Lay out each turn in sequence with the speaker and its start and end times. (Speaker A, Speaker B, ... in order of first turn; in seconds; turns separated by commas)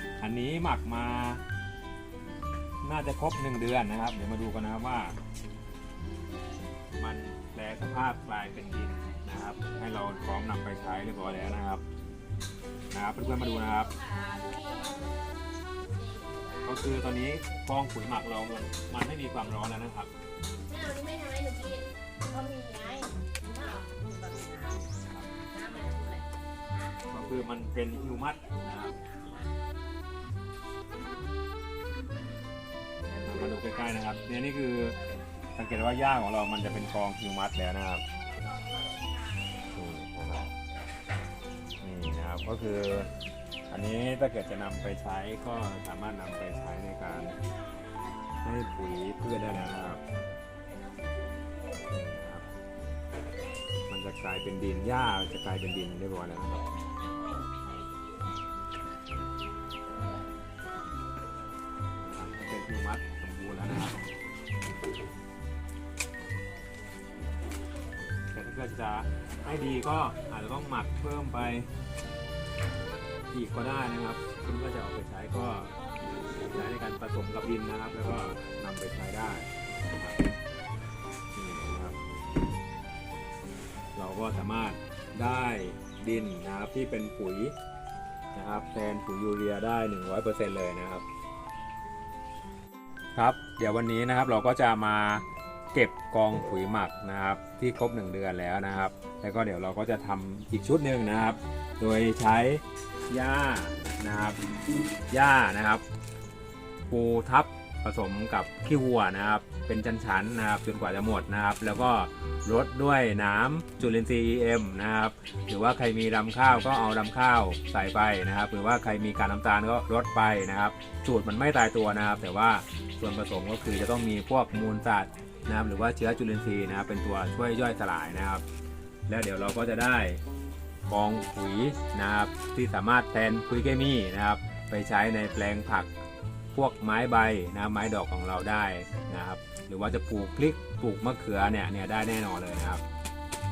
Speaker A: 0.2-1.4, Speaker A: 2.8-5.2, Speaker A: 7.0-11.8, Speaker A: 12.9-13.9, Speaker B: 13.9-15.2, Speaker B: 15.8-16.7, Speaker A: 16.6-20.1, Speaker B: 20.6-24.7, Speaker A: 24.7-25.4, Speaker B: 25.5-26.3, Speaker A: 27.1-28.9, Speaker B: 28.9-29.5, Speaker A: 33.2-35.0, Speaker A: 35.5-38.0, Speaker A: 39.7-40.5, Speaker A: 41.8-43.1, Speaker A: 43.7-47.4, Speaker A: 48.4-50.0, Speaker A: 51.9-52.5, Speaker A: 53.9-56.7, Speaker A: 62.0-64.0, Speaker A: 68.3-71.7, Speaker A: 73.3-75.7, Speaker A: 76.5-80.2, Speaker A: 81.3-82.0, Speaker A: 83.9-87.5, Speaker A: 88.3-91.0, Speaker A: 93.1-104.4, Speaker A: 105.1-105.8, Speaker A: 106.9-128.4, Speaker A: 129.1-130.2, Speaker A: 130.9-135.9, Speaker A: 136.5-142.8